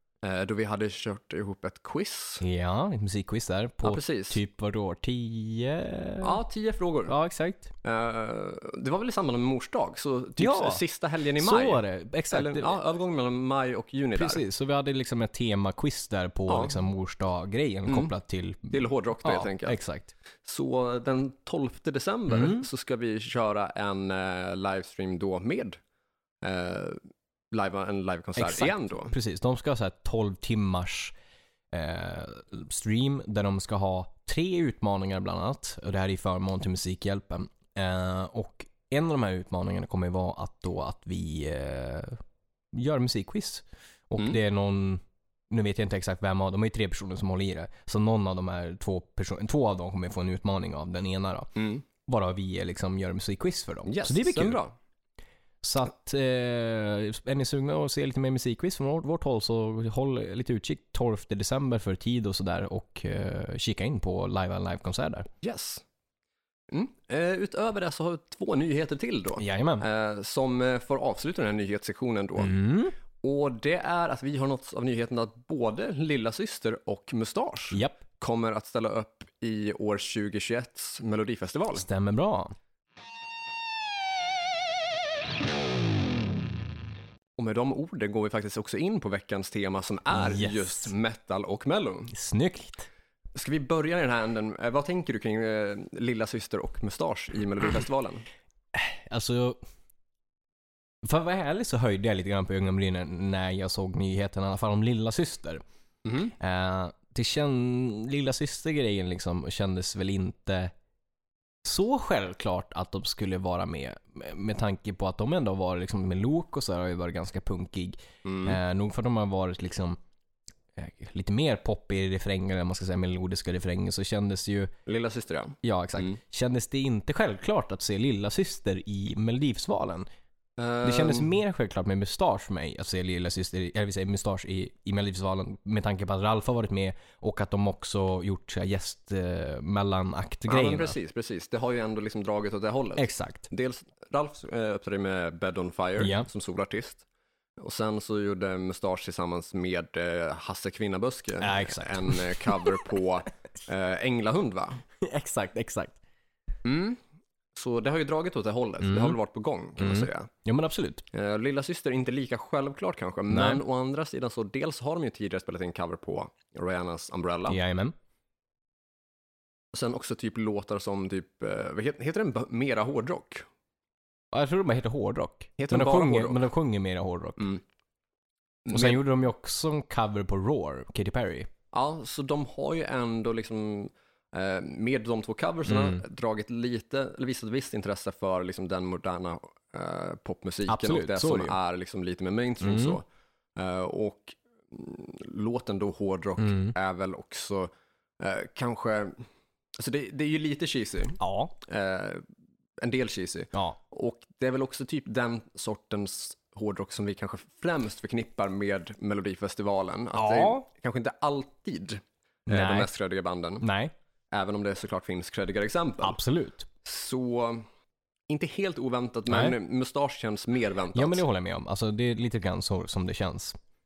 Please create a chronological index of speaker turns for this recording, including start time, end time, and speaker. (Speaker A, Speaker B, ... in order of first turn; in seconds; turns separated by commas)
Speaker A: 0.2-2.4, Speaker B: 2.4-6.4, Speaker A: 3.8-4.4, Speaker A: 6.2-7.2, Speaker B: 7.1-7.7, Speaker A: 7.8-14.4, Speaker B: 10.4-10.8, Speaker B: 11.4-12.8, Speaker B: 14.2-18.7, Speaker A: 16.5-16.8, Speaker A: 17.9-18.1, Speaker A: 18.7-19.8, Speaker B: 19.2-20.1, Speaker A: 20.4-25.8, Speaker B: 22.3-22.7, Speaker A: 26.4-27.0, Speaker A: 27.5-29.1, Speaker B: 28.4-31.1, Speaker B: 31.7-42.2, Speaker B: 42.7-51.5, Speaker A: 51.6-51.8, Speaker B: 52.1-54.6, Speaker A: 53.9-54.7, Speaker B: 55.6-65.3, Speaker A: 65.4-65.8, Speaker A: 66.7-72.6, Speaker B: 69.4-69.8, Speaker B: 72.4-73.0, Speaker A: 73.2-81.9, Speaker B: 77.7-78.0, Speaker B: 81.7-82.5, Speaker A: 87.4-92.2, Speaker B: 90.1-90.9, Speaker B: 92.1-92.9, Speaker A: 93.3-98.2, Speaker B: 98.7-99.6, Speaker B: 101.0-105.6, Speaker A: 106.0-106.3, Speaker B: 106.4-110.7, Speaker B: 111.6-120.0, Speaker A: 118.2-118.6, Speaker B: 120.8-124.7, Speaker A: 124.9-126.2, Speaker B: 125.6-130.1, Speaker A: 130.6-131.3, Speaker B: 130.8-140.9, Speaker A: 140.5-147.1, Speaker B: 143.0-143.5, Speaker B: 146.0-146.3, Speaker A: 147.6-154.8, Speaker B: 151.4-152.9, Speaker B: 155.0-156.0, Speaker A: 156.7-157.0, Speaker A: 157.6-160.3, Speaker B: 158.8-159.2, Speaker B: 159.8-161.0, Speaker A: 161.1-167.6, Speaker B: 163.3-163.6, Speaker B: 167.5-167.9, Speaker A: 169.7-173.5, Speaker B: 174.3-177.4, Speaker A: 175.6-176.4, Speaker A: 178.7-179.0, Speaker B: 178.7-181.5, Speaker A: 181.7-193.0, Speaker B: 185.7-186.0, Speaker B: 190.7-191.6, Speaker B: 192.6-193.0, Speaker A: 193.6-199.2, Speaker B: 196.4-196.7, Speaker A: 199.8-202.2, Speaker B: 201.2-201.5, Speaker A: 202.8-213.7, Speaker B: 210.2-210.6, Speaker B: 212.5-212.9, Speaker B: 213.6-213.9, Speaker A: 214.3-216.2, Speaker B: 216.0-216.7, Speaker A: 216.8-217.7, Speaker A: 218.3-221.2, Speaker B: 219.3-219.6, Speaker B: 220.9-223.6